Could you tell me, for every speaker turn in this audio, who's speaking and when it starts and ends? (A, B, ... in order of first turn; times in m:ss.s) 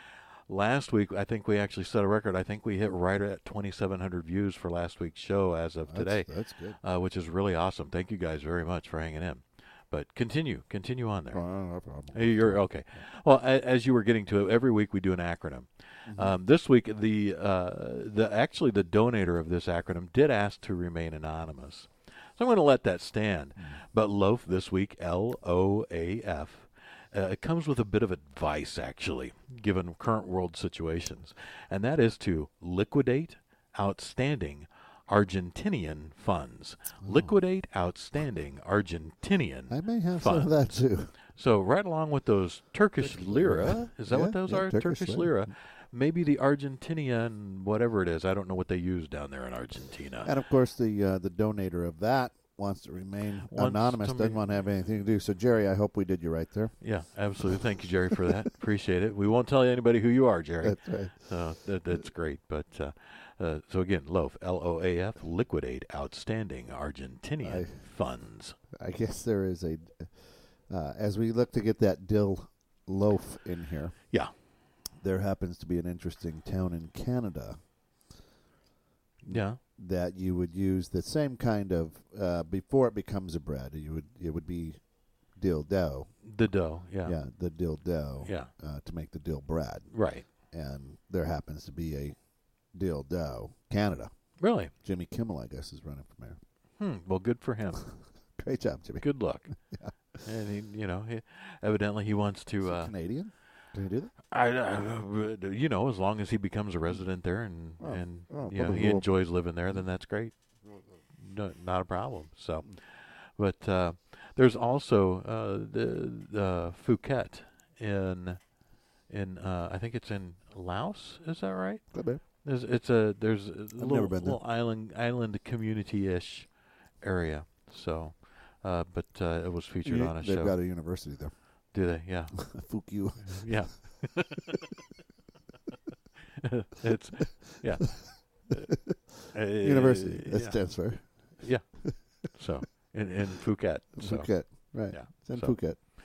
0:00.5-0:06.3 A
0:05.9-0:06.8 B
0:06.8-0:11.4 A
0:11.3-0:12.6 B
0:12.1-0:40.6 A
0:16.1-0:16.3 B
0:37.0-0:37.3 B
0:39.7-0:41.1 B
0:41.3-0:50.3 A
0:43.0-0:45.4 B
0:50.2-0:56.7 B
0:53.5-0:54.4 A
0:56.8-1:08.6 A
1:00.6-1:01.1 B
1:07.4-1:07.7 B
1:08.8-1:10.1 B
1:10.7-1:14.0 B
1:15.0-1:17.6 B
1:19.2-1:24.8 B
1:19.3-1:19.6 A
1:25.4-1:26.1 B
1:26.2-1:27.2 A
1:27.0-1:29.9 B
1:28.2-1:28.5 A
1:29.9-1:30.3 A
1:30.5-1:32.2 B
1:32.8-1:34.1 B
1:34.4-1:34.7 A
1:34.8-1:36.4 B
1:36.8-1:37.9 A
1:38.4-1:39.1 B
1:39.0-1:39.5 A
1:39.7-1:39.9 B
1:40.2-1:42.9 A
1:42.6-1:44.1 B
1:44.3-1:50.3 A
1:47.8-1:49.1 B
1:51.2-1:52.8 A
1:53.4-1:58.4 A
1:59.1-2:01.8 A
2:01.9-2:02.2 B
2:02.4-2:06.5 A
2:03.8-2:04.4 B
2:07.0-2:10.6 A
2:09.8-2:11.3 B
2:11.7-2:12.4 A
2:12.4-2:13.6 B
2:13.2-2:14.9 A
2:16.2-2:18.7 A
2:18.5-2:19.0 B
2:19.3-2:20.6 A
2:19.6-2:21.1 B
2:22.3-2:24.3 A
2:24.0-2:25.8 B
2:24.9-2:25.6 A